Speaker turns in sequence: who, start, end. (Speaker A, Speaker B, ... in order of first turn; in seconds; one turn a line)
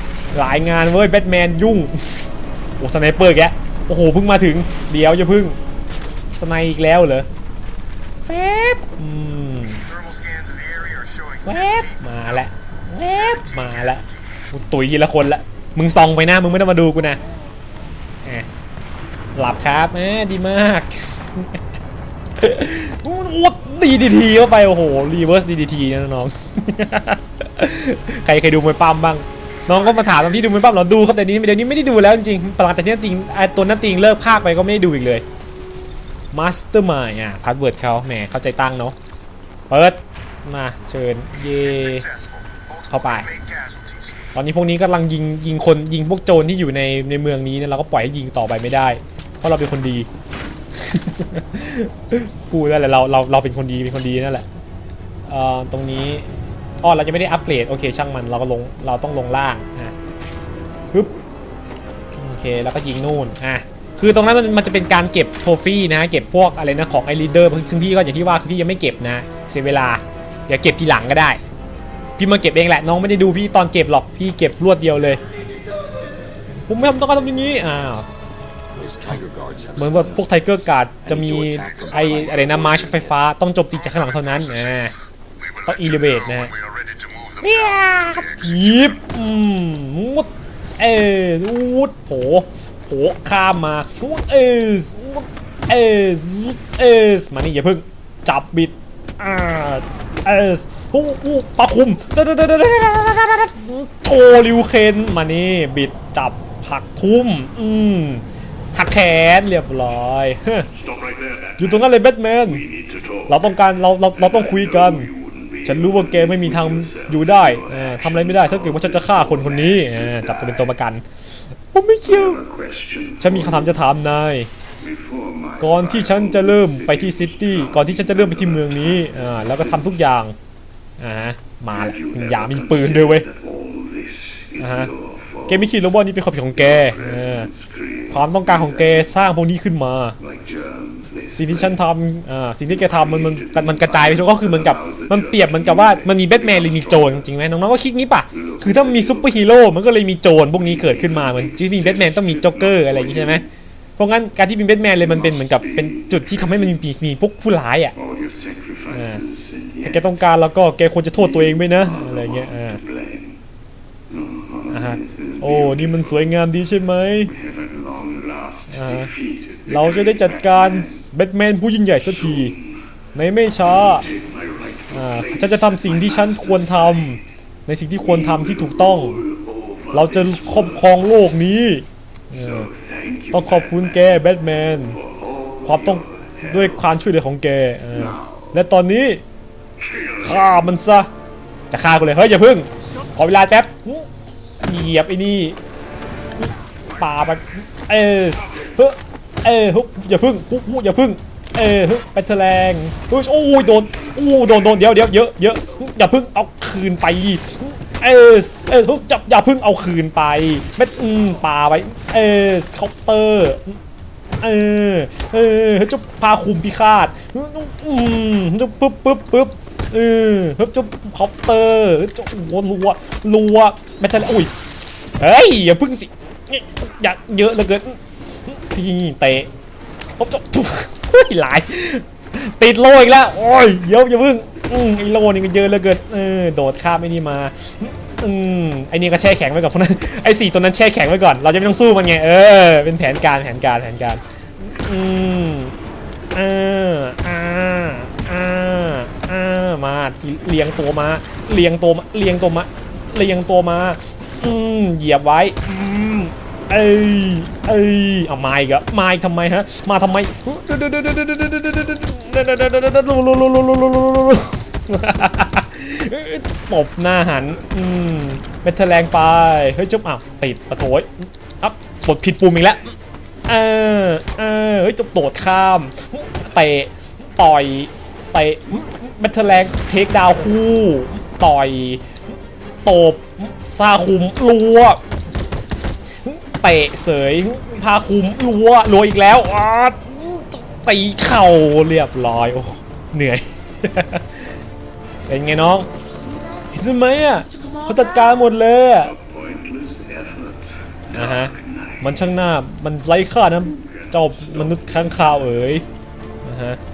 Speaker A: 0.3-2.1
Speaker A: 2.8-5.6
Speaker A: 6.3-7.3
Speaker A: 8.3-9.8
Speaker B: 9.8-12.4
Speaker A: 11.4-17.2
Speaker B: 13.1-14.2
Speaker A: 19.4-21.6
Speaker A: 22.4-35.2
Speaker A: 36.3-39.0
Speaker A: 39.7-42.1
Speaker B: 41.8-44.2
Speaker A: 42.9-43.3
Speaker A: 44.3-50.1
Speaker A: 50.7-54.5
Speaker A: 55.3-56.3
Speaker A: 56.8-60.0
Speaker A: 62.2-71.4
Speaker A: 72.2-75.2
Speaker A: 76.7-78.1
Speaker C: 78.7-83.2
Speaker A: 79.8-84.9
Speaker B: 83.9-84.9
Speaker B: 85.4-88.9
Speaker A: 85.7-86.5
Speaker A: 87.4-110.7
Speaker C: 110.8-111.6
Speaker A: 111.6-112.7
Speaker C: 112.8-113.2
Speaker A: 113.3-115.1
Speaker C: 114.3-117.2
Speaker A: 115.6-121.0
Speaker A: 121.6-122.4
Speaker C: 122.2-123.7
Speaker A: 123.2-124.5
Speaker C: 124.8-126.4
Speaker A: 125.6-130.4
Speaker C: 127.0-127.3
Speaker A: 131.0-133.3
Speaker C: 131.7-135.5
Speaker A: 134.6-134.9
Speaker A: 135.5-137.5
Speaker C: 136.7-138.0
Speaker A: 138.1-140.2
Speaker C: 140.2-141.7
Speaker A: 141.3-153.4
Speaker C: 142.9-147.2
Speaker C: 148.4-149.3
Speaker C: 151.9-153.3
Speaker A: 154.0-158.0
Speaker C: 158.1-160.0
Speaker A: 158.9-159.2
Speaker A: 159.8-162.8
Speaker C: 162.8-163.3
Speaker C: 164.1-165.8
Speaker A: 164.7-167.3
Speaker C: 167.3-170.8
Speaker A: 168.7-169.1
Speaker A: 169.7-172.6
Speaker A: 173.2-174.1
Speaker C: 174.0-175.6
Speaker A: 174.9-179.2
Speaker C: 179.9-180.6
Speaker A: 179.9-182.7
Speaker C: 182.4-183.9
Speaker A: 183.3-185.0
Speaker A: 185.6-189.2
Speaker C: 185.7-186.1
Speaker A: 190.2-191.1
Speaker A: 191.7-194.1
Speaker A: 194.6-195.6
Speaker A: 196.4-213.8
Speaker A: 214.4-224.5
Speaker A: 225.2-229.5
Speaker A: 230.2-245.8
Speaker A: 246.3-272.9
Speaker A: 273.5-282.2
Speaker A: 282.9-285.0
Speaker A: 286.2-294.5
Speaker A: 295.3-295.9
Speaker A: 296.7-299.1
Speaker C: 299.1-302.1
Speaker A: 301.1-305.9
Speaker C: 304.4-304.8
Speaker A: 306.4-306.8